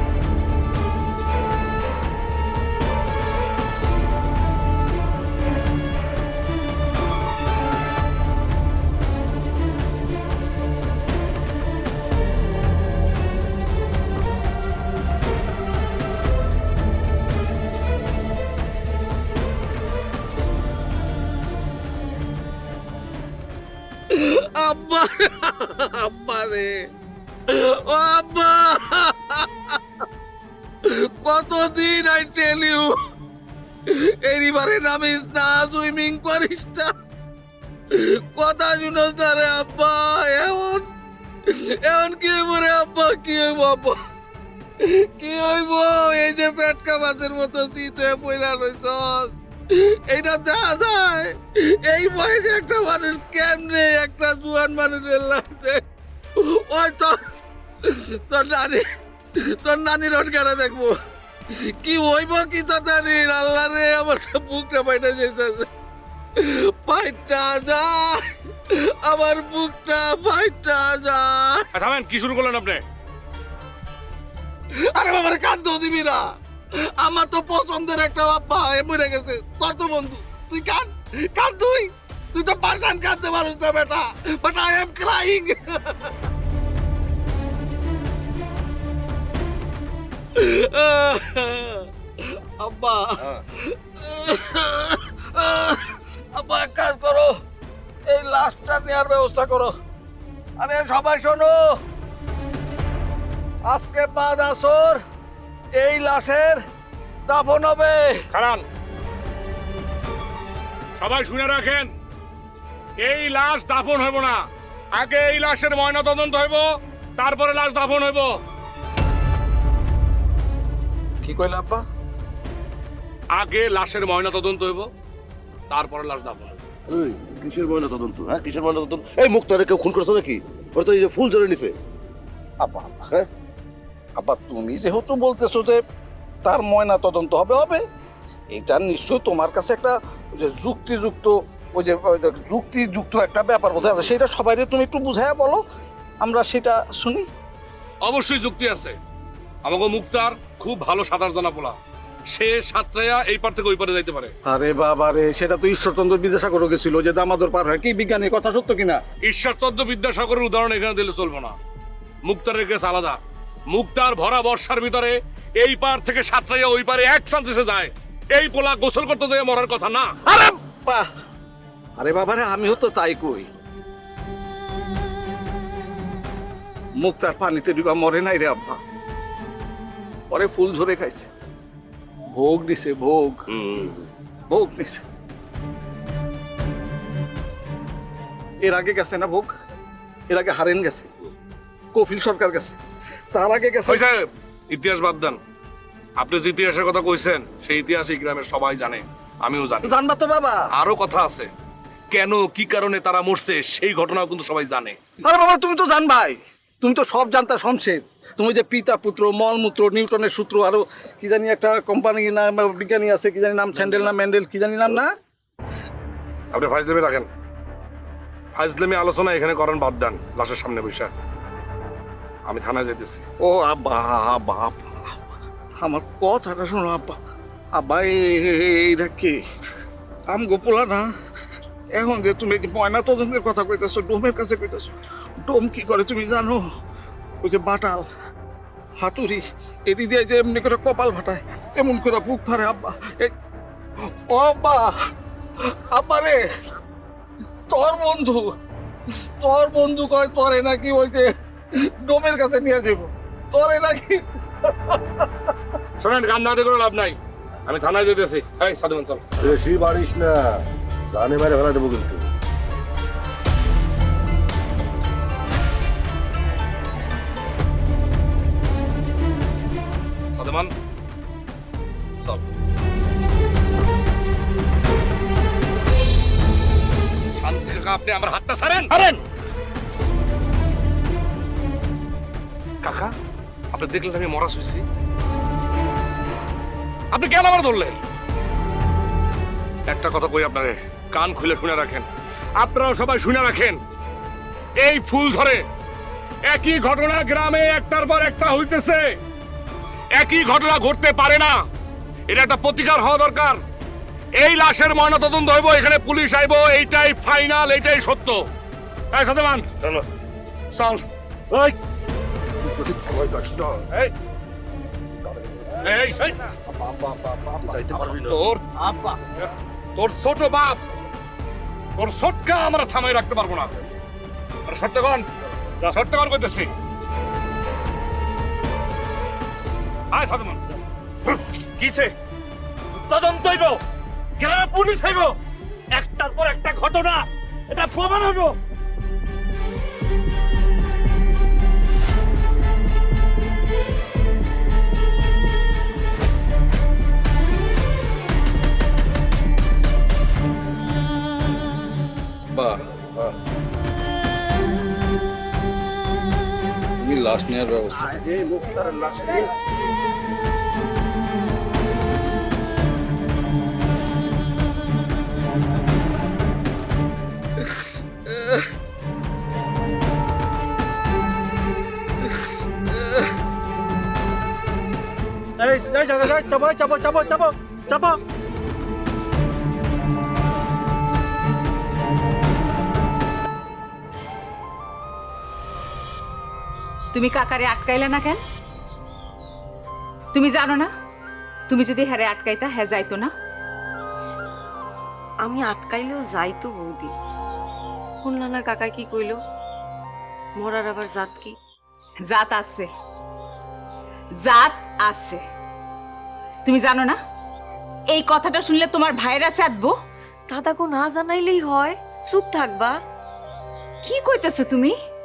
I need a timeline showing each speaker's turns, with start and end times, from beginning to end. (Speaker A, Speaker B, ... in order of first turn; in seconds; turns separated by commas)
Speaker A: 24.1-26.8, Speaker A: 27.5-29.8, Speaker A: 30.8-33.0, Speaker A: 33.9-36.9, Speaker A: 37.9-40.8, Speaker A: 41.5-44.0, Speaker A: 44.8-55.8, Speaker A: 56.4-57.2, Speaker A: 57.8-58.8, Speaker A: 59.4-60.9, Speaker A: 61.5-65.7, Speaker A: 66.4-71.7, Speaker B: 71.7-72.8, Speaker A: 74.7-76.2, Speaker A: 76.8-86.1, Speaker A: 90.3-97.4, Speaker A: 98.1-99.7, Speaker A: 100.6-101.6, Speaker A: 103.7-105.0, Speaker A: 105.8-106.6, Speaker A: 107.3-108.2, Speaker B: 108.3-108.6, Speaker B: 111.0-111.9, Speaker B: 113.0-114.4, Speaker B: 114.9-118.4, Speaker A: 121.2-121.8, Speaker B: 123.3-124.9, Speaker B: 125.7-126.6, Speaker C: 126.9-131.7, Speaker A: 132.6-133.1, Speaker A: 134.2-135.8, Speaker A: 136.4-137.8, Speaker A: 138.5-145.6, Speaker A: 146.2-147.3, Speaker B: 148.0-149.0, Speaker B: 149.6-151.8, Speaker B: 152.3-154.3, Speaker A: 154.5-159.0, Speaker B: 159.2-161.5, Speaker B: 162.2-163.2, Speaker B: 163.7-170.1, Speaker A: 170.2-171.0, Speaker A: 172.0-173.5, Speaker A: 177.0-178.8, Speaker A: 180.3-181.3, Speaker A: 182.3-183.5, Speaker C: 183.5-184.1, Speaker A: 184.5-185.0, Speaker A: 188.6-189.5, Speaker A: 190.3-191.1, Speaker A: 191.9-192.8, Speaker A: 193.3-194.1, Speaker B: 193.9-195.4, Speaker B: 196.2-199.9, Speaker A: 199.8-200.6, Speaker B: 200.7-201.5, Speaker B: 202.1-205.0, Speaker A: 205.2-215.1, Speaker B: 216.5-217.3, Speaker B: 218.6-221.1, Speaker B: 222.5-223.2, Speaker A: 223.4-225.2, Speaker A: 225.8-227.2, Speaker A: 227.8-229.4, Speaker A: 230.3-231.1, Speaker A: 231.9-236.6, Speaker A: 237.4-238.1, Speaker A: 239.0-243.3, Speaker A: 244.3-244.9, Speaker A: 245.9-246.4, Speaker A: 247.7-248.5, Speaker A: 249.4-251.3, Speaker A: 252.0-254.2, Speaker B: 256.0-259.2, Speaker C: 259.4-260.5, Speaker C: 261.1-262.2, Speaker B: 270.3-270.7, Speaker B: 277.4-279.2, Speaker B: 282.8-283.1, Speaker B: 283.7-284.8, Speaker B: 287.1-288.0, Speaker B: 289.9-292.1, Speaker B: 292.6-293.8, Speaker B: 294.8-295.6, Speaker B: 296.5-299.0, Speaker B: 300.2-301.6, Speaker B: 302.3-303.6, Speaker B: 304.4-308.4, Speaker B: 309.1-309.7, Speaker B: 310.7-311.0, Speaker C: 312.7-313.8, Speaker B: 315.8-318.6, Speaker C: 317.6-318.4, Speaker B: 319.4-320.8, Speaker B: 322.0-323.7, Speaker B: 324.7-325.2, Speaker B: 325.8-326.7, Speaker B: 330.1-330.6, Speaker B: 331.8-332.1, Speaker B: 333.0-333.8, Speaker B: 334.4-335.4, Speaker B: 335.9-338.5, Speaker A: 352.5-352.8, Speaker A: 357.0-358.2, Speaker D: 375.6-378.2, Speaker E: 387.1-388.4, Speaker E: 390.3-390.9, Speaker E: 391.7-393.3, Speaker F: 395.4-397.1, Speaker F: 398.2-399.4, Speaker F: 400.6-401.5, Speaker E: 402.3-402.9, Speaker E: 404.4-405.4, Speaker E: 406.6-407.2, Speaker E: 408.1-409.9, Speaker F: 410.5-412.9, Speaker E: 414.0-414.9